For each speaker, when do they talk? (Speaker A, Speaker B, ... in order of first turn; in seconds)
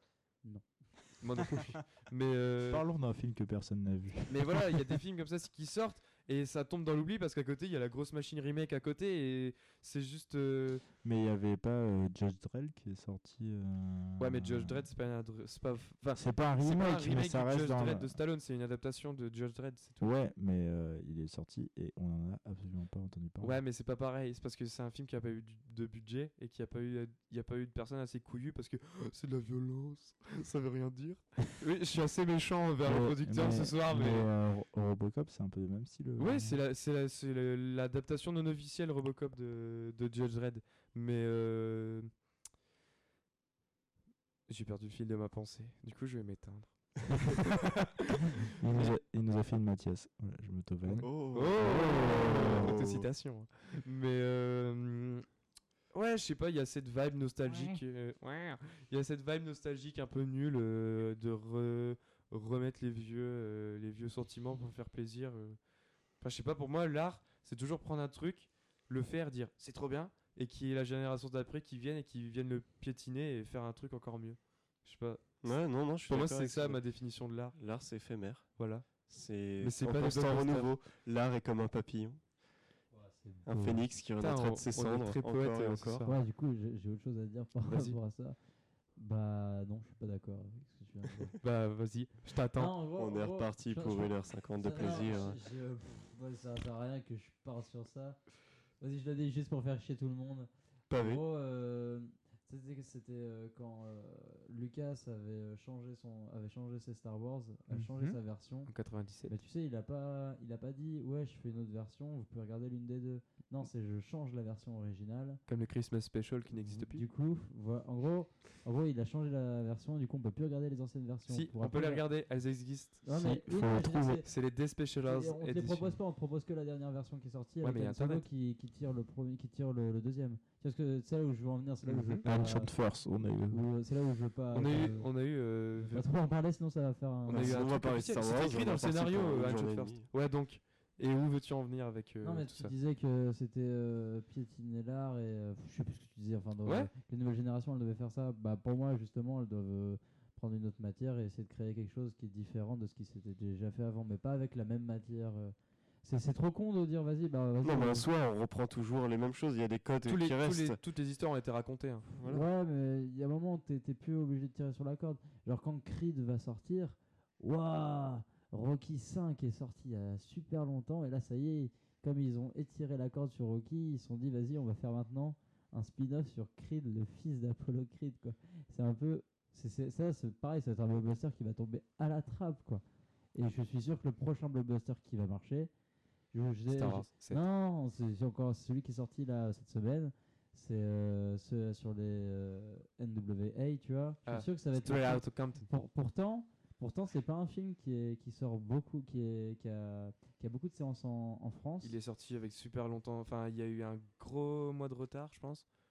Speaker A: 0.4-1.7, 82.9-83.8, 86.0-88.4, 89.0-91.4, 92.5-98.3, 98.8-115.4, 116.5-122.0, 123.0-124.3, 125.0-132.9, 133.5-135.1, 135.9-137.6, 142.2-158.1, 162.2-185.7, 186.3-202.0
Speaker B: 1.2-2.8, 4.3-10.8, 14.2-20.1, 23.4-34.3, 36.2-42.1, 44.5-47.9, 50.9-55.2, 55.9-65.6, 66.2-75.4, 76.0-77.5, 78.6-78.9, 79.6-80.7, 84.2-86.2, 87.6-88.0, 91.4-92.7, 94.8-95.2, 107.7-109.3, 115.5-117.0, 121.3-123.0, 124.2-126.0, 127.6-128.2, 131.8-132.2, 134.5-136.0, 137.2-142.7, 146.6-146.9, 160.1-162.1, 186.7-187.4, 194.3-195.6, 201.8-205.6
Speaker C: 2.7-4.8, 11.0-14.9, 16.1-18.2, 20.0-23.6, 32.8-36.6, 48.5-52.7, 123.1-124.2, 132.2-133.6
Speaker D: 51.0-53.0, 75.4-76.8, 77.5-82.2, 83.5-86.1, 92.9-95.4, 100.9-101.2, 137.3-140.1, 157.6-160.8, 162.1-162.4